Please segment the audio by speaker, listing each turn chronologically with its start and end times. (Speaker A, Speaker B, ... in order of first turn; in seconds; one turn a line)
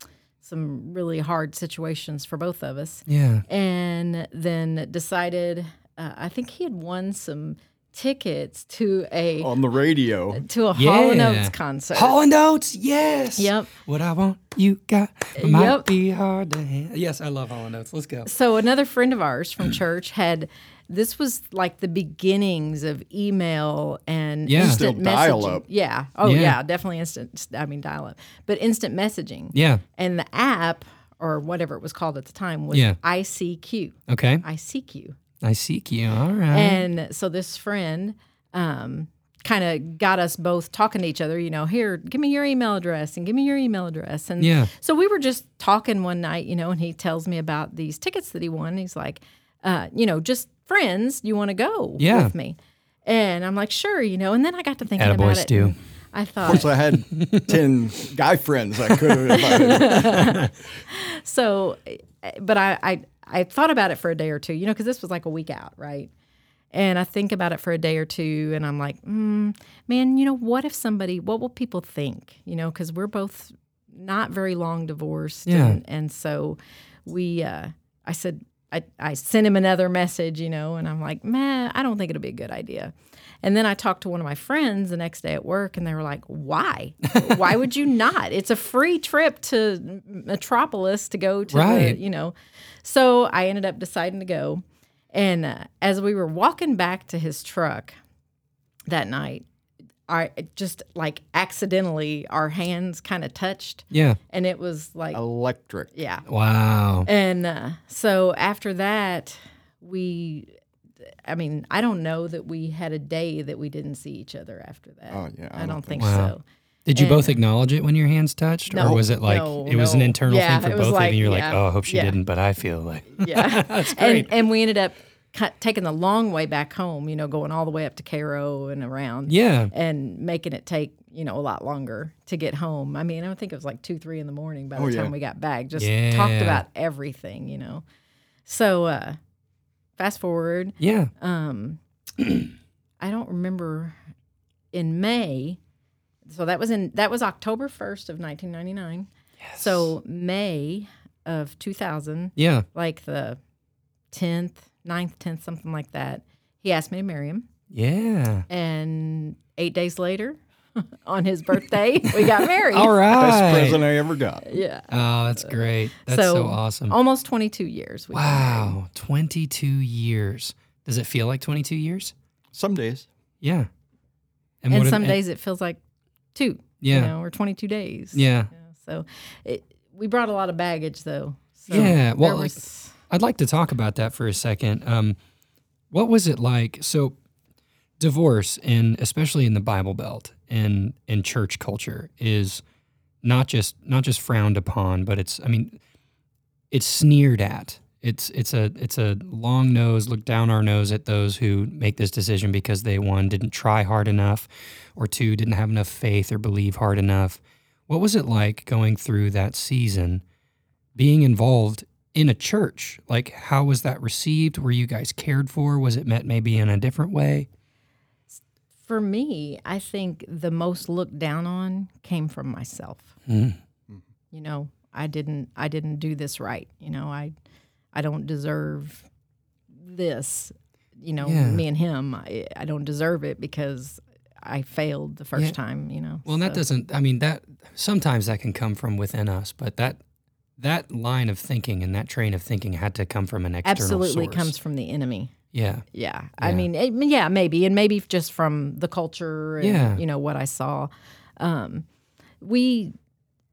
Speaker A: 0.4-9.5
Speaker B: 3.1-3.4
Speaker C: 9.4-10.4
Speaker A: 10.3-12.2
Speaker B: 10.7-18.3
Speaker A: 13.4-13.7
Speaker A: 15.3-15.9
Speaker A: 18.2-35.2
Speaker B: 24.5-24.8
Speaker C: 24.6-25.6
Speaker B: 26.2-26.6
Speaker B: 29.5-29.8
Speaker B: 32.7-33.0
Speaker B: 34.1-34.4
Speaker B: 35.4-36.8
Speaker A: 36.5-56.7
Speaker B: 44.4-44.7
Speaker B: 52.0-52.3
Speaker B: 55.0-55.7
Speaker C: 56.4-60.3
Speaker B: 56.9-57.6
Speaker A: 59.3-66.1
Speaker A: 66.7-98.0
Speaker B: 75.5-75.8
Speaker B: 87.2-87.5
Speaker B: 91.5-92.0
Speaker A: 98.9-99.4
Speaker A: 100.1-105.2
Speaker B: 103.9-104.2
Speaker C: 105.1-105.9
Speaker A: 105.9-106.2
Speaker B: 106.3-107.1
Speaker A: 107.0-110.5
Speaker A: 111.2-116.4
Speaker C: 115.1-116.1
Speaker B: 116.0-116.3
Speaker B: 116.8-124.3
Speaker A: 116.9-117.3
Speaker A: 118.7-122.2
Speaker A: 123.2-137.8
Speaker B: 129.3-129.7
Speaker C: 134.8-135.1
Speaker B: 135.8-136.6
Speaker A: 138.4-139.2
Speaker A: 140.0-141.8
Speaker B: 140.8-141.1
Speaker A: 143.0-143.9
Speaker A: 144.7-145.6
Speaker A: 146.2-153.4
Speaker B: 149.4-149.9
Speaker B: 152.4-152.7
Speaker A: 154.1-157.4
Speaker B: 157.7-158.5
Speaker A: 158.5-163.0
Speaker B: 162.1-163.9
Speaker C: 163.1-164.5
Speaker A: 164.4-168.7
Speaker B: 164.9-166.9
Speaker B: 168.1-172.1
Speaker C: 172.5-173.1
Speaker B: 173.4-173.7
Speaker B: 174.6-175.2
Speaker A: 174.7-175.8
Speaker A: 176.3-182.9
Speaker B: 176.8-177.1
Speaker B: 178.1-178.5
Speaker B: 181.7-185.2
Speaker B: 185.9-187.1
Speaker B: 188.0-192.6
Speaker B: 193.2-195.8
Speaker B: 196.7-210.2
Speaker B: 210.9-217.5
Speaker A: 218.3-223.1
Speaker B: 223.3-223.6
Speaker A: 224.3-227.3
Speaker A: 227.9-229.0
Speaker A: 229.8-236.6
Speaker B: 231.2-231.6
Speaker B: 236.2-240.0
Speaker B: 240.6-244.5
Speaker A: 243.6-245.3
Speaker B: 245.5-245.8
Speaker A: 245.9-251.8
Speaker B: 246.4-246.7
Speaker B: 249.6-250.0
Speaker A: 252.4-252.9